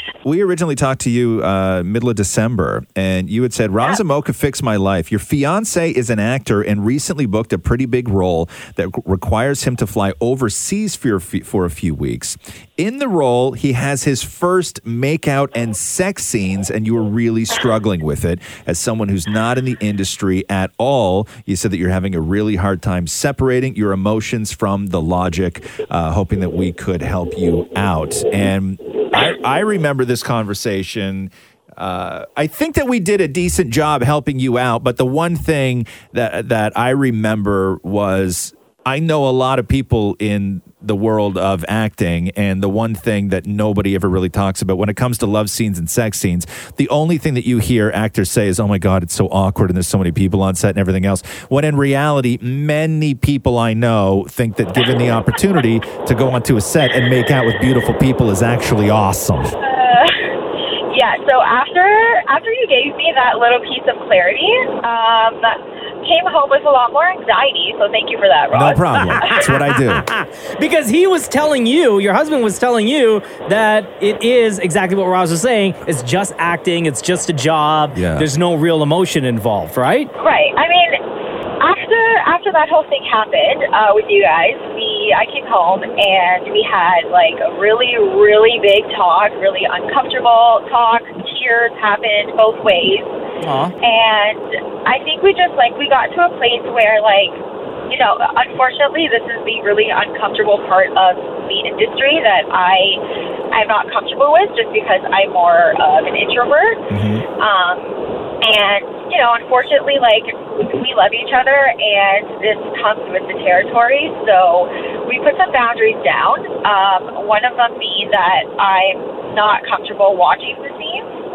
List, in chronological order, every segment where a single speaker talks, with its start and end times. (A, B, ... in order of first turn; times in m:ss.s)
0:00.2-0:59.6 A
0:59.6-1:00.2 B
1:00.9-1:09.4 B
1:08.5-1:10.1 A
1:10.0-1:20.1 C
1:17.9-1:18.3 A
1:20.2-1:21.0 B
1:21.6-1:33.2 B
1:33.4-1:33.7 C
1:33.8-1:43.0 B
1:43.5-1:46.8 B
1:46.9-1:47.2 A
1:47.4-2:01.1 B